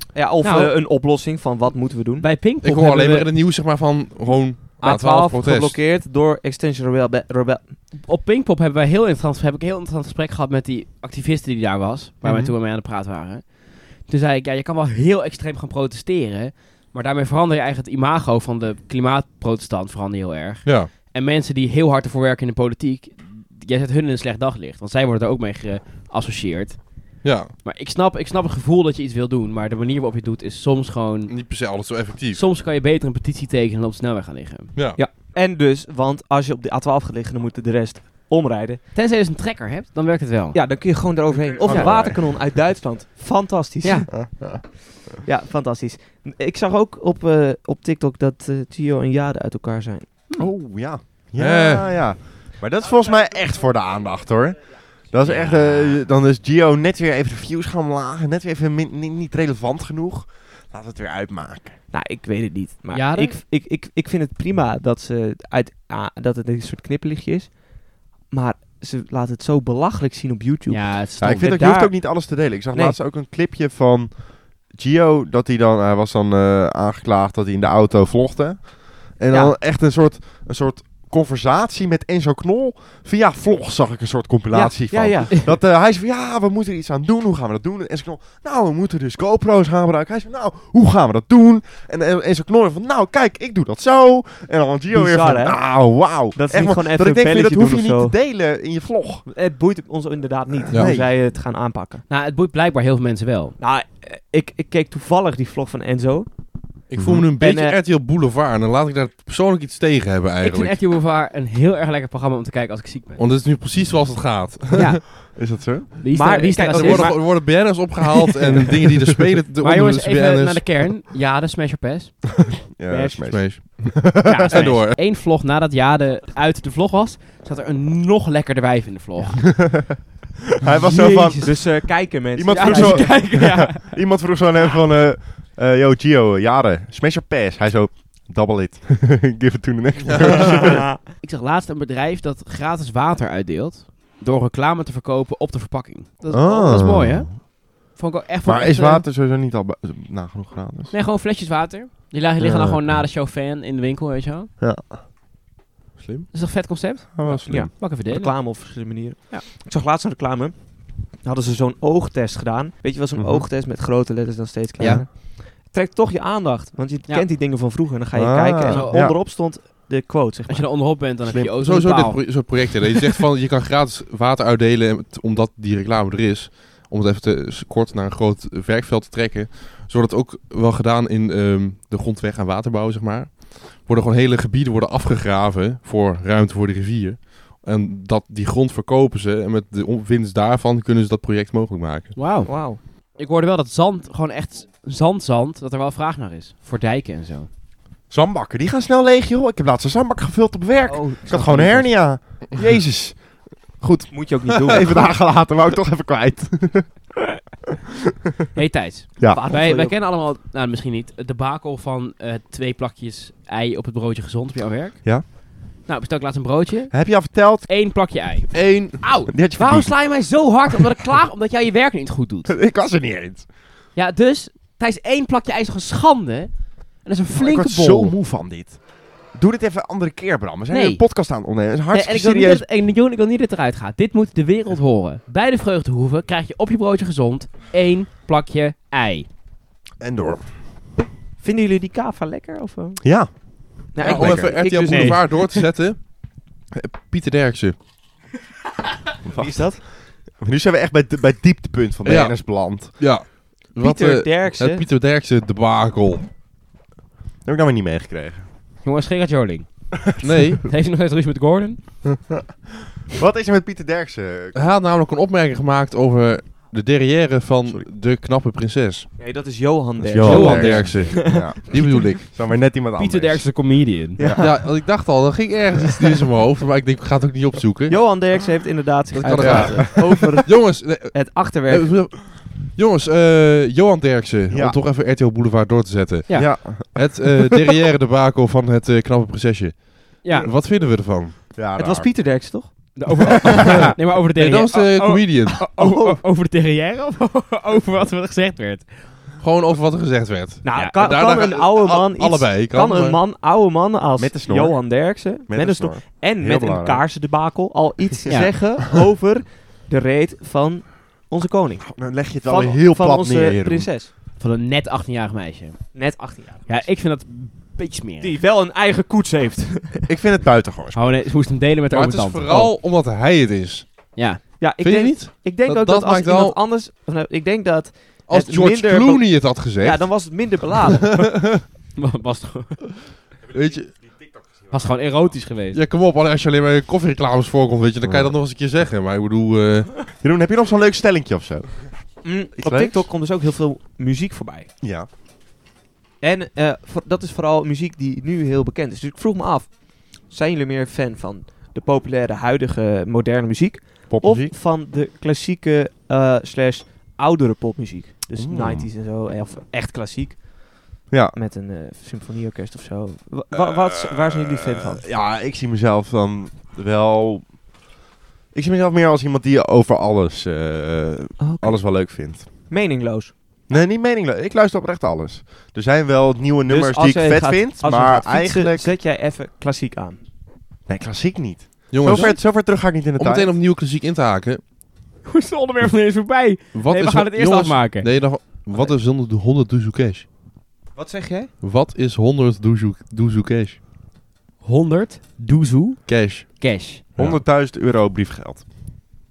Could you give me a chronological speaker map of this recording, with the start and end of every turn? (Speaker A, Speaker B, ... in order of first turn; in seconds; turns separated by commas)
Speaker A: 0.1-2.2, Speaker B: 0.4-0.8, Speaker B: 2.2-3.3, Speaker C: 2.6-5.8, Speaker A: 4.8-7.8, Speaker B: 8.0-31.5, Speaker C: 20.6-20.9, Speaker C: 27.2-27.5, Speaker C: 31.3-32.4, Speaker B: 32.3-34.7, Speaker C: 34.7-35.0, Speaker A: 35.0-38.8, Speaker B: 38.9-40.6, Speaker A: 40.5-50.2, Speaker D: 41.6-42.3, Speaker B: 41.6-41.9, Speaker B: 43.8-44.1, Speaker D: 44.1-44.6, Speaker D: 50.4-61.8, Speaker C: 51.4-51.9, Speaker B: 55.2-55.6, Speaker A: 61.9-73.0, Speaker B: 62.9-63.4, Speaker B: 70.7-71.6, Speaker D: 71.2-99.2, Speaker A: 84.5-85.4, Speaker A: 94.9-98.1, Speaker A: 99.3-102.0, Speaker D: 100.7-101.1, Speaker B: 102.1-103.5, Speaker A: 103.6-106.4, Speaker C: 106.9-110.8, Speaker D: 107.0-107.2, Speaker A: 107.4-107.8, Speaker B: 110.4-113.2, Speaker C: 113.2-115.0, Speaker B: 114.7-115.4, Speaker D: 115.3-115.9, Speaker B: 116.0-117.2, Speaker A: 116.1-117.8, Speaker C: 116.7-120.8, Speaker B: 119.6-123.2, Speaker D: 122.7-124.7, Speaker C: 123.3-125.0, Speaker B: 124.2-129.5, Speaker D: 129.6-129.9, Speaker D: 130.6-140.8, Speaker B: 130.8-131.5, Speaker A: 130.9-133.2, Speaker B: 132.5-134.0, Speaker A: 140.4-141.0, Speaker B: 141.2-149.1, Speaker D: 146.3-147.4, Speaker D: 148.4-150.9, Speaker B: 150.9-154.5, Speaker D: 152.4-152.9, Speaker D: 154.6-155.0, Speaker C: 156.0-156.3, Speaker B: 156.3-158.6, Speaker D: 157.1-157.7, Speaker A: 157.5-170.7, Speaker D: 163.2-163.4, Speaker D: 164.8-165.0, Speaker D: 168.1-169.2, Speaker B: 168.7-169.0, Speaker B: 170.5-172.5, Speaker D: 171.2-171.5, Speaker C: 171.6-192.2, Speaker B: 192.2-192.5, Speaker A: 192.4-192.8, Speaker B: 193.1-197.5, Speaker D: 198.1-207.1, Speaker A: 200.9-201.9, Speaker B: 201.4-201.8, Speaker A: 204.1-205.1, Speaker B: 208.5-222.6, Speaker A: 209.3-209.9, Speaker D: 216.9-217.7, Speaker C: 218.5-219.0, Speaker D: 219.3-220.1, Speaker D: 222.5-223.5, Speaker B: 223.9-228.1, Speaker D: 227.3-232.6, Speaker B: 230.7-239.3, Speaker D: 240.0-240.5, Speaker A: 241.4-243.2, Speaker D: 243.0-244.5, Speaker A: 243.9-245.5, Speaker C: 244.0-246.1, Speaker B: 244.9-245.3, Speaker C: 246.7-247.8, Speaker D: 249.2-253.0, Speaker A: 249.3-249.8, Speaker C: 252.0-256.3, Speaker A: 253.8-254.8, Speaker D: 257.4-258.4, Speaker B: 258.8-259.9, Speaker C: 260.2-260.6, Speaker B: 260.6-261.8, Speaker D: 263.1-264.6, Speaker C: 264.5-269.1, Speaker A: 269.2-272.0, Speaker D: 270.0-274.5, Speaker B: 270.2-270.9, Speaker C: 270.2-272.2, Speaker B: 272.9-274.2, Speaker A: 274.2-274.5, Speaker C: 274.4-278.0, Speaker A: 277.9-282.0, Speaker C: 279.1-291.5, Speaker D: 279.4-280.1, Speaker D: 284.5-284.8, Speaker B: 286.3-286.6, Speaker D: 286.3-287.2, Speaker B: 290.2-290.5, Speaker D: 291.5-292.1, Speaker A: 291.8-293.7, Speaker B: 292.9-299.1, Speaker C: 293.6-295.7, Speaker A: 295.6-296.2, Speaker C: 299.4-303.2, Speaker A: 300.6-314.1, Speaker D: 304.2-307.0, Speaker B: 308.3-308.5, Speaker D: 311.8-313.9, Speaker B: 314.4-318.4, Speaker A: 315.9-316.9, Speaker A: 318.2-320.1, Speaker D: 320.1-321.0, Speaker B: 320.9-322.7, Speaker C: 321.9-324.0, Speaker B: 324.1-324.4, Speaker A: 324.6-331.3, Speaker C: 324.8-326.6, Speaker C: 328.3-330.6, Speaker C: 331.2-331.6, Speaker B: 331.9-332.8, Speaker C: 333.5-333.9, Speaker B: 334.7-335.8, Speaker C: 335.7-339.9, Speaker D: 338.0-338.3, Speaker D: 340.2-341.9, Speaker A: 342.2-344.7, Speaker D: 342.6-343.1, Speaker D: 344.8-345.1, Speaker A: 346.2-365.1, Speaker D: 354.1-354.5, Speaker D: 358.4-358.9, Speaker D: 361.1-361.4, Speaker D: 363.5-367.6, Speaker D: 368.5-372.5, Speaker A: 371.4-373.3, Speaker D: 373.7-378.9, Speaker A: 376.7-380.2, Speaker D: 380.9-383.6, Speaker C: 381.9-384.6, Speaker A: 382.1-382.4, Speaker B: 385.2-388.1, Speaker C: 386.7-390.2, Speaker A: 390.9-391.5, Speaker C: 391.6-393.8, Speaker B: 394.6-397.0, Speaker C: 396.1-396.6, Speaker C: 397.1-397.4, Speaker D: 397.2-398.6